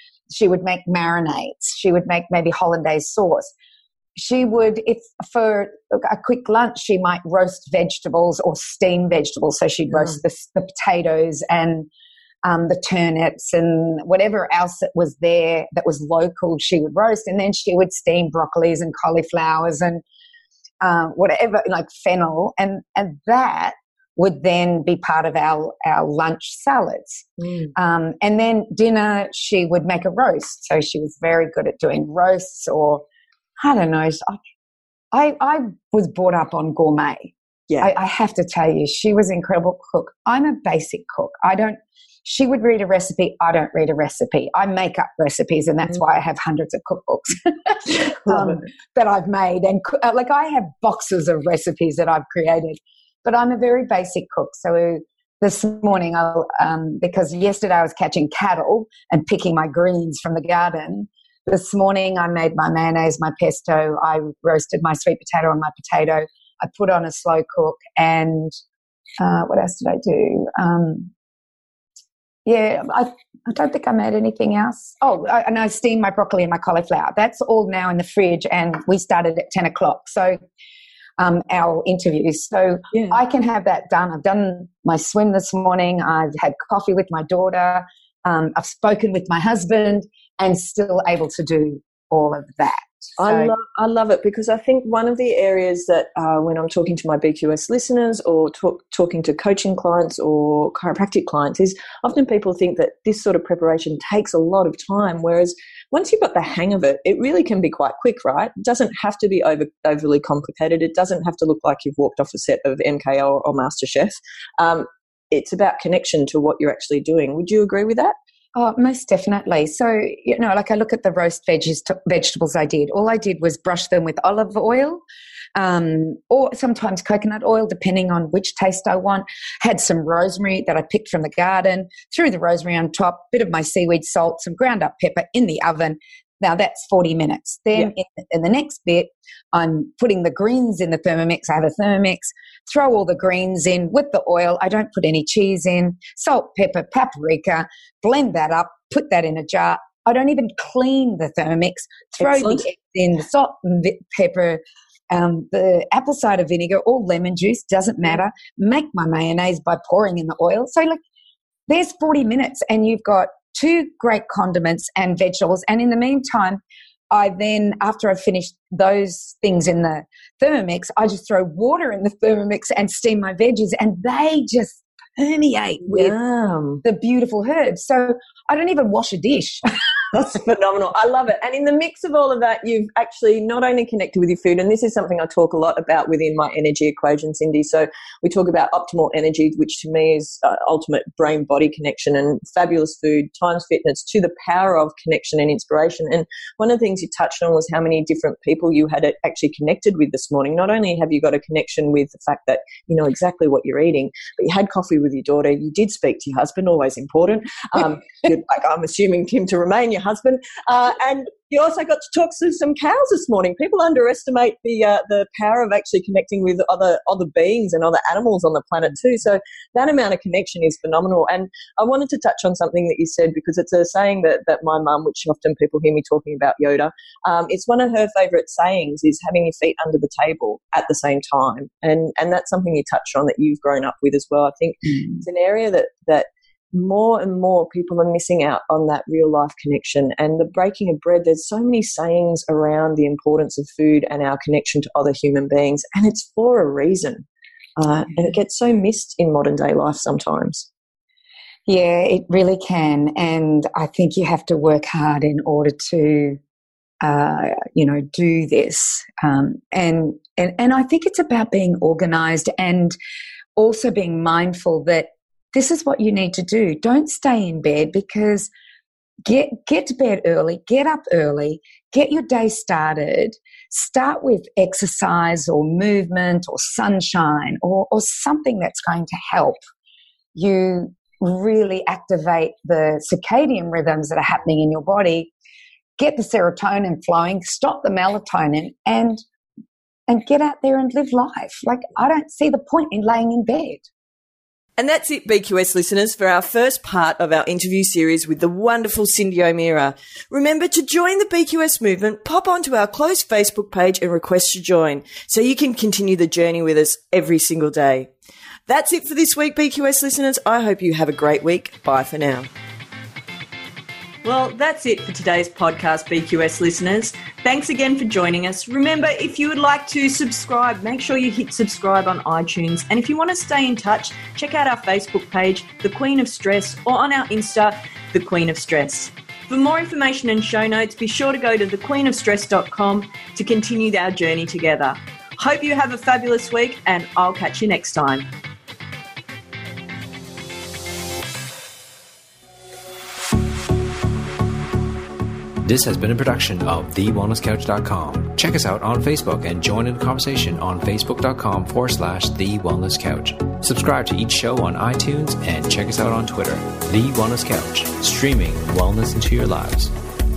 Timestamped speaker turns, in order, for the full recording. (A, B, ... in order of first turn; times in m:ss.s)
0:00.3-0:03.5 A
0:04.2-0:11.9 A
0:12.4-0:20.0 A
0:20.8-0:27.2 A
0:27.4-0:27.7 B
0:27.8-0:33.0 A
0:33.6-0:34.4 A
0:35.1-0:37.3 A
0:37.8-1:08.5 A
0:48.3-0:48.6 B
1:09.2-1:11.1 A
1:12.4-1:20.4 A
1:21.2-1:33.5 A
1:22.9-1:23.2 B
1:33.2-1:58.1 B
1:58.5-2:05.0 A
2:05.5-2:41.0 A
2:32.2-2:32.6 B
2:41.7-2:56.2 A
2:55.8-2:56.8 B
2:56.8-2:59.6 A
3:00.1-4:07.2 B
4:07.8-4:10.7 B
4:11.6-4:16.4 A
4:17.0-4:23.0 A
4:23.6-4:28.5 A
4:29.2-4:39.6 A
4:40.3-4:45.3 A
4:46.0-4:49.2 A
4:50.1-4:53.8 A
4:54.8-5:08.1 B
5:08.7-5:12.5 B
5:14.2-5:38.3 B
5:45.6-5:59.9 C